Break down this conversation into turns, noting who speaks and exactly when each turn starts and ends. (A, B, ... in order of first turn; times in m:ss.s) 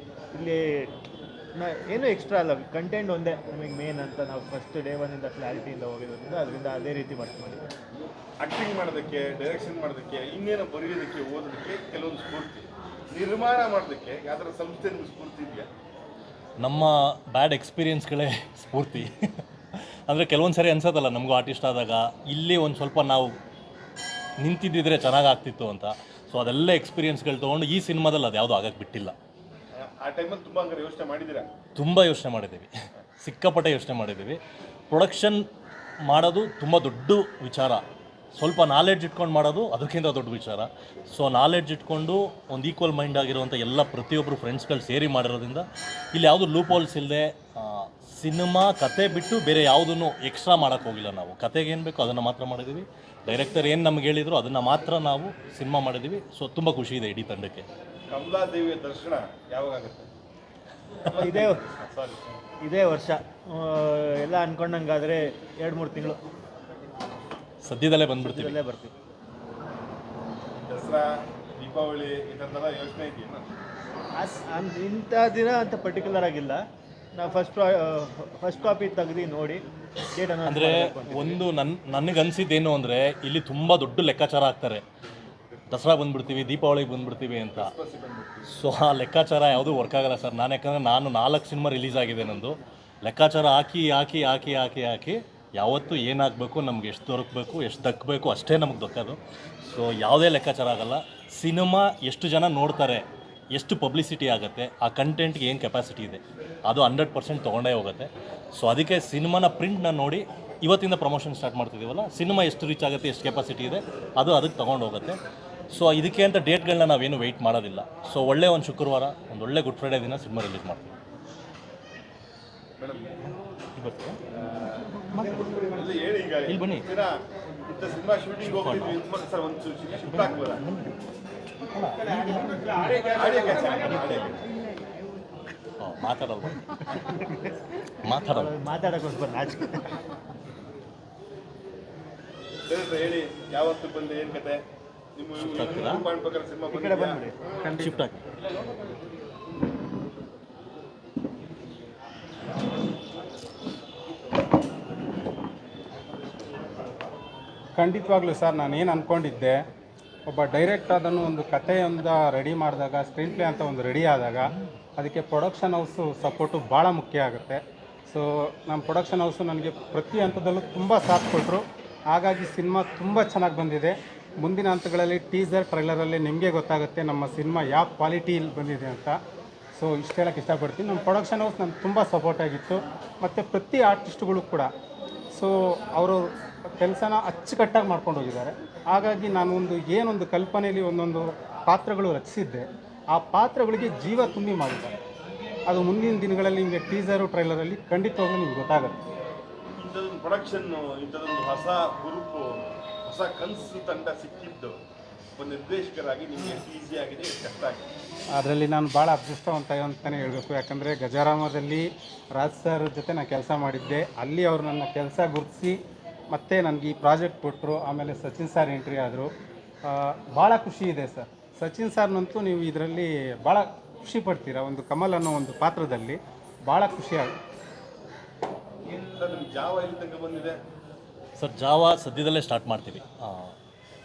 0:00.3-0:00.9 A
0:01.6-0:07.7 A
0:08.4-0:15.7 B
0:16.6-0:23.4 C
0:24.4-0:29.2 C
0:29.8-0:31.5 B
0:31.8-0:34.4 C
0:34.9-0:35.4 C
0:36.1-0:37.8 C
0:38.4-0:57.7 C
0:58.1-1:00.1 B
1:01.0-1:02.2 B
1:01.1-1:01.6 A
1:02.6-1:06.2 A
1:07.6-1:08.6 C
1:08.2-1:08.9 A
1:10.6-1:13.5 B
1:14.2-1:16.6 A
1:17.2-1:19.6 A
1:20.1-1:21.4 A
1:20.4-1:24.8 C
1:25.7-1:27.7 C
1:27.5-1:28.5 B
1:28.5-1:55.2 C
1:55.7-2:01.0 C
2:02.8-2:03.1 B
2:03.8-2:04.2 C
2:04.4-2:04.9 B
2:05.1-2:05.4 C
2:05.6-2:07.2 B
2:06.5-2:06.8 C
2:07.7-2:10.6 B
2:08.4-2:09.0 C
2:10.0-2:11.0 C
2:11.7-2:13.1 C
2:13.2-2:14.4 B
2:15.8-2:16.9 C
2:16.9-2:17.5 A
2:18.0-2:18.5 C
2:18.3-2:20.0 A
2:22.7-2:24.6 B
2:25.2-2:27.2 B
2:25.4-2:26.0 C
2:26.7-2:27.4 A
2:27.6-2:28.0 D
2:27.8-2:28.2 C
2:37.8-2:39.6 D
2:40.3-2:59.2 D
2:59.8-3:04.7 D
3:05.4-3:06.3 D
3:06.8-3:15.0 D
3:15.7-3:19.0 D
3:19.8-3:24.8 B
3:25.4-3:27.9 B
3:28.4-3:35.8 D
3:36.3-3:39.3 D
3:39.9-3:47.3 D
3:48.9-3:50.6 B
3:51.4-3:53.5 C